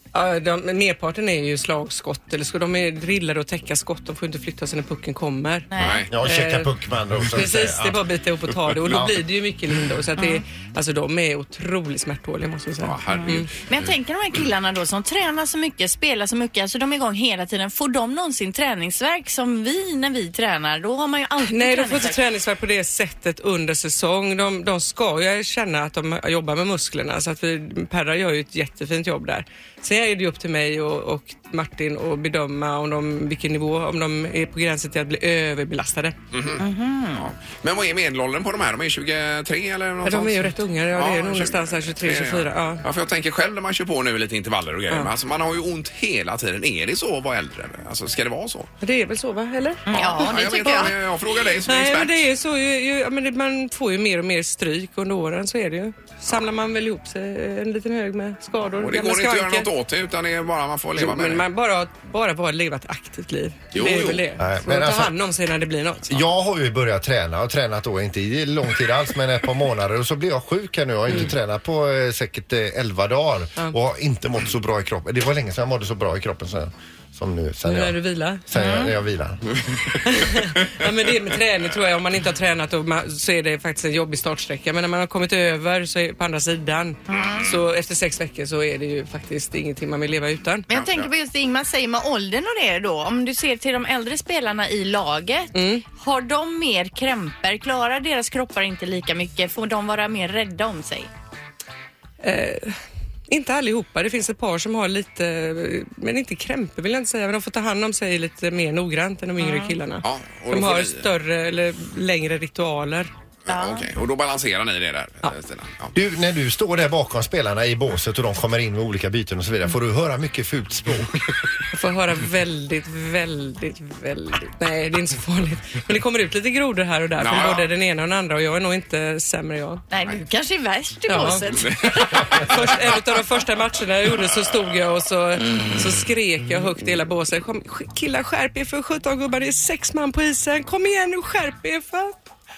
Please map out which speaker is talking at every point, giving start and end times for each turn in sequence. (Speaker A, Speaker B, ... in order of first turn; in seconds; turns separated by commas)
Speaker A: 0.1-5.7, Speaker B: 5.7-6.0, Speaker C: 5.8-6.1, Speaker D: 6.1-8.0, Speaker A: 6.2-6.7, Speaker A: 7.3-13.5, Speaker D: 8.9-9.2, Speaker B: 10.2-10.4, Speaker C: 12.8-13.5, Speaker B: 13.1-22.2, Speaker A: 21.4-36.2, Speaker C: 36.3-48.7, Speaker B: 36.6-37.3, Speaker A: 40.0-42.8, Speaker A: 48.8-50.9, Speaker B: 49.9-50.9, Speaker C: 49.9-52.3, Speaker A: 51.6-59.7, Speaker C: 58.8-61.5, Speaker A: 61.0-66.1, Speaker C: 63.7-64.3, Speaker D: 64.4-65.2, Speaker D: 66.1-79.4, Speaker A: 77.7-78.5, Speaker B: 78.5-78.9, Speaker A: 80.0-90.7, Speaker B: 87.1-87.5, Speaker C: 87.1-87.6, Speaker B: 90.7-101.1, Speaker C: 90.7-91.1, Speaker A: 95.5-95.8, Speaker A: 102.2-113.1, Speaker B: 109.4-109.8, Speaker C: 110.0-111.1, Speaker C: 113.5-116.0, Speaker B: 113.5-113.9, Speaker D: 116.0-121.3, Speaker A: 121.7-129.8, Speaker C: 127.2-127.7, Speaker B: 129.9-132.4, Speaker A: 131.1-142.2, Speaker C: 131.5-132.7, Speaker C: 134.2-134.7